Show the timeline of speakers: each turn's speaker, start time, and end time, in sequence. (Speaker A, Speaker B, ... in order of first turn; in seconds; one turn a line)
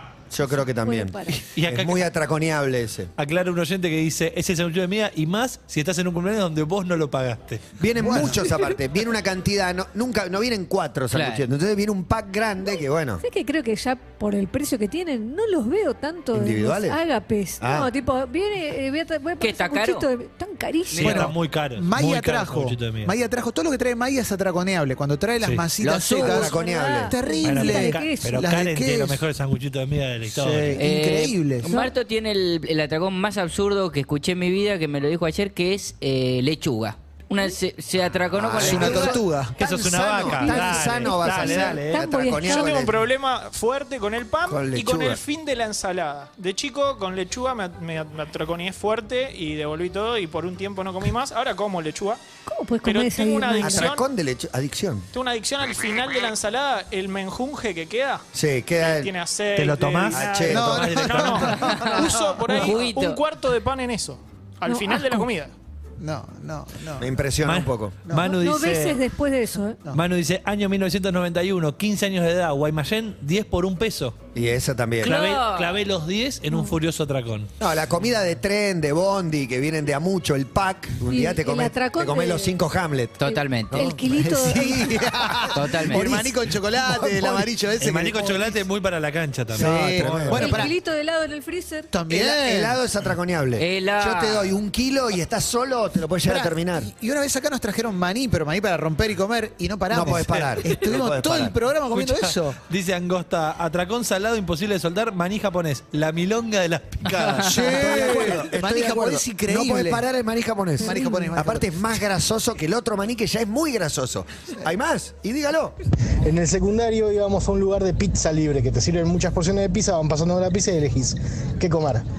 Speaker A: 0.3-3.1
Speaker B: 0.5-1.4
Speaker C: 1.5-2.1
Speaker C: 3.2-7.7
Speaker A: 7.8-13.2
Speaker D: 8.0-8.5
Speaker E: 11.1-11.4
Speaker B: 12.6-21.2
Speaker A: 16.3-17.0
Speaker A: 17.6-17.9
Speaker E: 19.4-20.1
Speaker E: 20.9-21.2
Speaker C: 20.9-23.1
Speaker D: 21.0-29.2
Speaker C: 25.4-25.6
Speaker E: 25.8-26.5
Speaker A: 26.2-27.1
Speaker B: 26.2-28.4
Speaker C: 27.4-30.8
Speaker D: 30.3-31.7
Speaker E: 30.8-39.2
Speaker B: 31.6-31.9
Speaker A: 38.3-43.0
Speaker D: 38.5-39.6
Speaker C: 39.6-42.0
Speaker B: 40.3-42.8
Speaker F: 42.4-52.2
Speaker A: 44.5-45.2
Speaker B: 52.5-54.0
Speaker F: 52.8-54.0
Speaker A: 53.6-55.1
Speaker F: 55.1-58.2
Speaker A: 58.3-59.1
Speaker F: 58.8-65.5
Speaker C: 59.5-61.7
Speaker A: 60.1-61.4
Speaker D: 60.5-62.7
Speaker E: 61.7-63.2
Speaker B: 64.7-65.2
Speaker D: 66.0-67.1
Speaker A: 67.0-68.0
Speaker C: 67.4-69.0
Speaker D: 68.1-68.3
Speaker B: 68.3-69.8
Speaker C: 69.9-74.2
Speaker A: 74.3-75.1
Speaker C: 75.0-77.5
Speaker E: 75.0-75.8
Speaker B: 76.5-76.8
Speaker A: 77.6-83.2
Speaker B: 81.1-82.5
Speaker E: 83.2-83.9
Speaker B: 83.2-84.9
Speaker A: 83.7-87.5
Speaker D: 83.8-88.6
Speaker E: 85.5-86.1
Speaker C: 87.8-90.6
Speaker D: 89.5-90.7
Speaker A: 89.5-90.7
Speaker B: 90.3-91.9
Speaker D: 91.9-92.8
Speaker A: 92.1-96.9
Speaker E: 93.6-94.5
Speaker D: 96.2-102.6
Speaker A: 99.9-101.5
Speaker C: 100.1-100.5
Speaker C: 101.9-108.3
Speaker D: 107.4-110.0
Speaker A: 107.7-115.8
Speaker D: 110.8-111.8
Speaker B: 110.8-111.3
Speaker G: 116.2-122.0